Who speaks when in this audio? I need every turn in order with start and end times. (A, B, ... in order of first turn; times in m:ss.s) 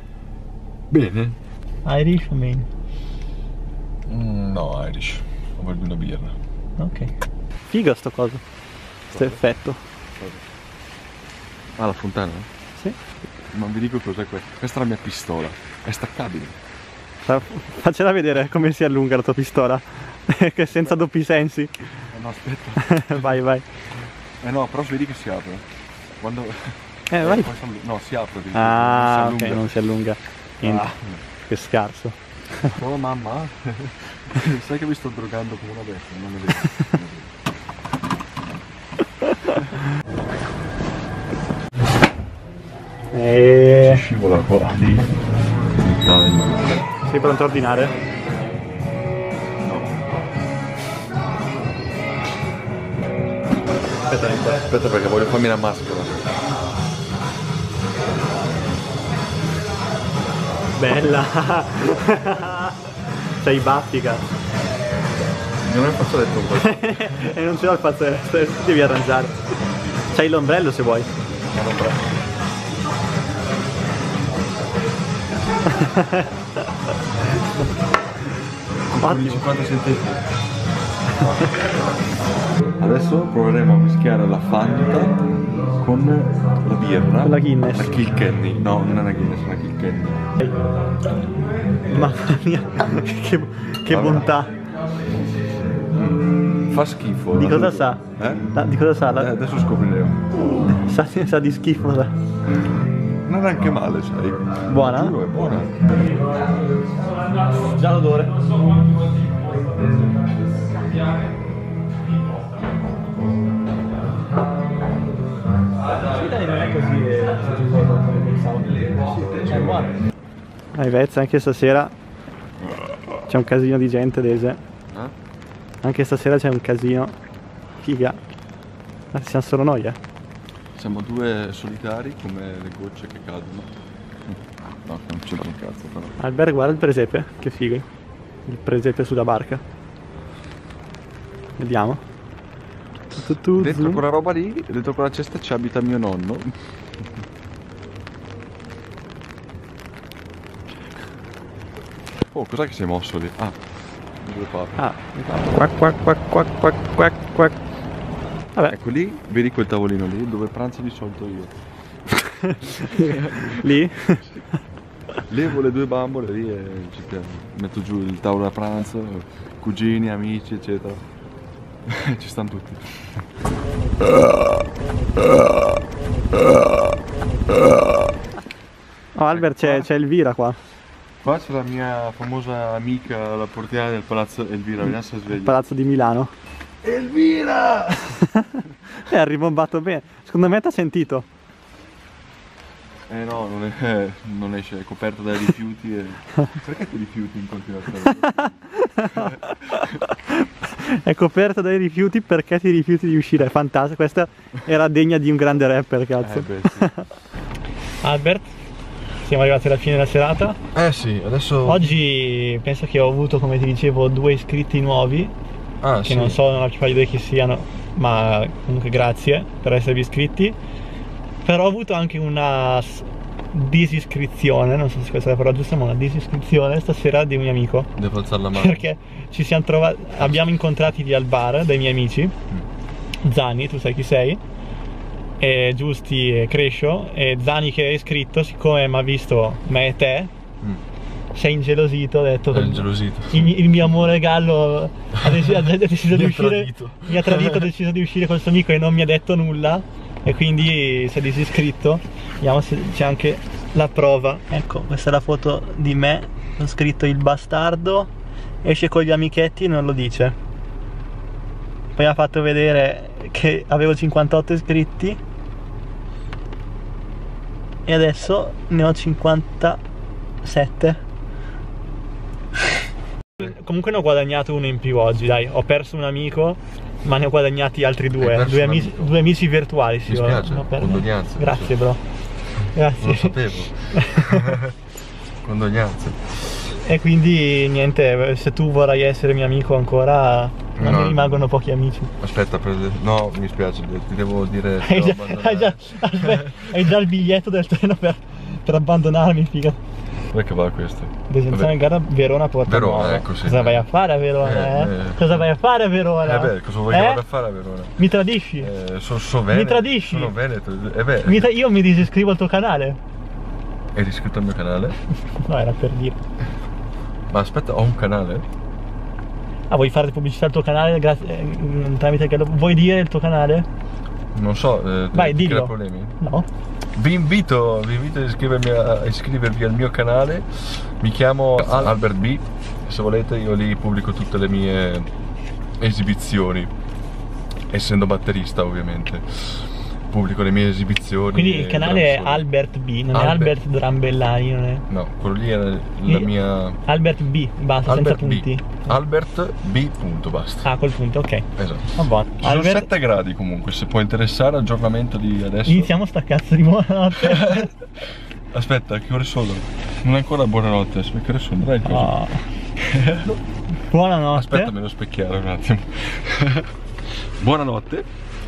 0:00.9-0:01.4 A
0:01.8-0:02.7 B
0:04.1-0:06.4 A
0:06.8-0:07.1 B
0:07.7-0:08.4 B
0:09.1-0:09.4 A
0:09.1-0:09.8 B
0:10.2-0:10.4 A
0:11.8-0:12.5 A
0:13.5-0:16.6 A
0:17.3-0:21.7 B
0:22.1-0:23.4 A
0:22.8-0:23.6 B
0:24.4-0:25.7 A
0:26.2-0:29.7 A
0:27.1-0:27.5 B
0:28.5-0:31.0 B
0:30.6-0:31.2 A
0:31.5-0:32.7 B
0:32.6-0:37.3 A
0:43.1-0:44.0 B
0:43.8-0:45.1 A
0:45.7-0:46.8 A
0:47.0-0:47.9 B
0:49.6-0:49.9 A
0:54.1-0:54.6 B
0:54.3-0:56.3 A
1:00.8-1:02.8 B
1:03.4-1:04.3 B
1:05.6-1:07.3 A
1:06.6-1:09.4 B
1:10.1-1:11.1 B
1:11.5-1:12.1 A
1:15.8-1:16.3 B
1:18.9-1:20.2 A
1:19.0-1:19.4 B
1:22.8-1:30.2 A
1:27.2-1:28.0 B
1:31.0-1:31.4 A
1:31.9-1:34.6 B
1:33.9-1:34.3 A
1:35.9-1:38.4 A
1:37.3-1:39.3 B
1:39.1-1:40.2 A
1:40.7-1:42.1 B
1:43.2-1:45.8 A
1:44.7-1:45.2 B
1:47.4-1:49.9 B
1:56.0-2:00.0 B
2:00.7-2:01.9 B
2:03.3-2:04.6 B
2:05.8-2:07.1 B
2:07.8-2:08.2 B
2:09.1-2:10.0 B
2:10.8-2:13.7 A
2:14.3-2:16.2 A
2:16.2-2:17.8 B
2:18.5-2:19.6 B
2:21.6-2:22.0 B
2:23.1-2:24.0 B
2:23.5-2:26.6 A
2:32.3-2:34.8 A
2:34.8-2:37.6 B
2:38.7-2:41.5 A
2:42.1-2:44.4 B
2:42.7-2:43.7 A
2:45.3-2:51.0 A
2:51.9-2:53.2 A
2:59.2-3:00.6 B
2:59.3-2:59.9 A
3:01.2-3:05.6 A
3:05.4-3:06.3 B
3:06.8-3:08.3 A
3:08.3-3:11.3 B
3:13.1-3:18.5 A
3:18.0-3:27.1 B
3:19.1-3:20.0 A
3:26.2-3:26.9 A
3:28.0-3:28.5 B
3:29.2-3:30.6 B
3:30.8-3:32.0 A
3:31.6-3:35.3 B
3:35.8-3:36.4 A
3:36.1-3:40.6 B
3:41.4-3:47.9 B
3:48.0-3:48.8 A
3:48.5-3:52.3 B
3:53.2-3:54.4 B
3:55.4-4:00.3 B
4:01.3-4:18.1 B
4:02.5-4:04.0 A
4:05.2-4:07.7 A
4:18.6-4:20.4 B
4:22.0-4:25.2 B
4:27.9-4:29.8 B
4:30.4-4:31.0 B
4:33.4-4:42.0 B
4:38.2-4:39.2 A
4:40.1-4:41.8 A
4:42.6-4:43.4 B
4:43.0-4:44.8 A
4:43.9-4:44.6 B
4:45.4-4:46.4 A
4:46.7-4:52.1 B
4:50.8-4:51.5 A
4:52.2-4:56.8 A
4:54.8-4:59.8 B
5:00.3-5:01.7 A
5:01.3-5:07.2 B
5:02.6-5:03.8 A
5:04.4-5:05.4 A
5:06.2-5:08.0 A
5:08.0-5:08.7 B
5:08.6-5:11.5 A
5:09.5-5:10.3 B
5:11.2-5:13.0 B
5:14.0-5:15.0 A
5:15.4-5:16.2 B
5:17.3-5:18.5 A
5:19.7-5:23.7 B
5:24.3-5:26.2 A
5:25.1-5:26.5 B
5:27.0-5:35.1 A
5:35.8-5:36.7 A
5:37.7-5:42.4 A
5:41.3-5:44.8 B
5:43.1-5:43.6 A
5:44.9-5:46.8 A
5:46.8-5:48.9 B
5:47.9-5:50.7 A
5:50.6-5:52.9 B
5:51.6-5:55.9 A
5:55.7-5:57.7 B
5:57.1-5:57.7 A
5:58.5-6:02.2 A
6:01.8-6:02.5 B
6:02.8-6:03.4 A
6:03.9-6:04.7 B
6:04.3-6:06.7 A
6:07.4-6:08.1 A